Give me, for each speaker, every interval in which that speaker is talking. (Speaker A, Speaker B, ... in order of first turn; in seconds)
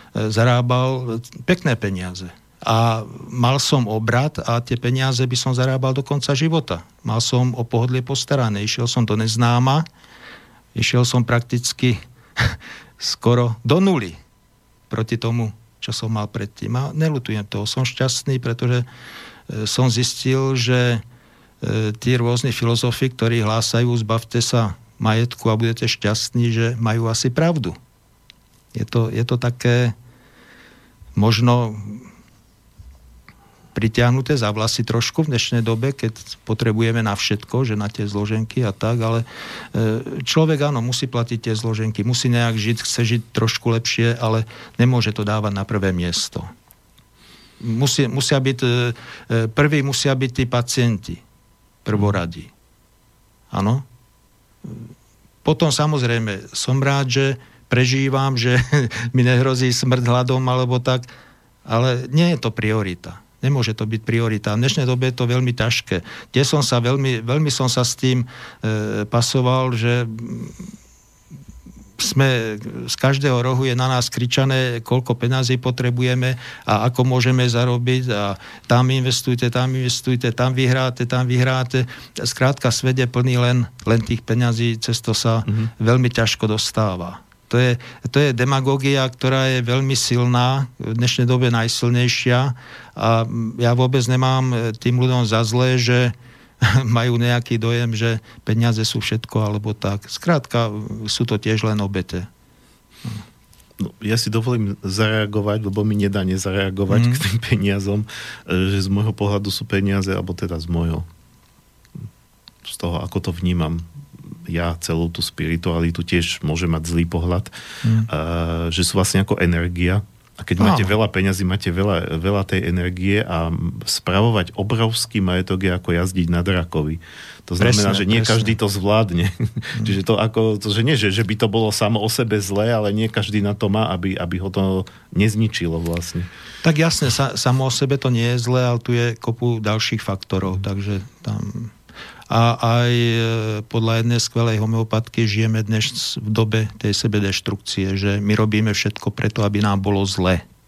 Speaker A: 0.1-9.8, 10.7-14.2, 14.9-18.9, 19.5-21.0, 21.6-27.8, 28.7-29.9, 31.1-32.1, 33.7-46.5, 47.6-51.2, 51.8-52.5, 53.5-53.8, 55.4-61.1, 61.6-70.6, 72.0-102.3, 106.9-107.2, 117.8-118.1, 120.6-120.9, 127.6-128.6, 136.6-141.7, 142.3-150.4
Speaker B: 103.8-111.0, 112.6-117.5, 118.1-136.3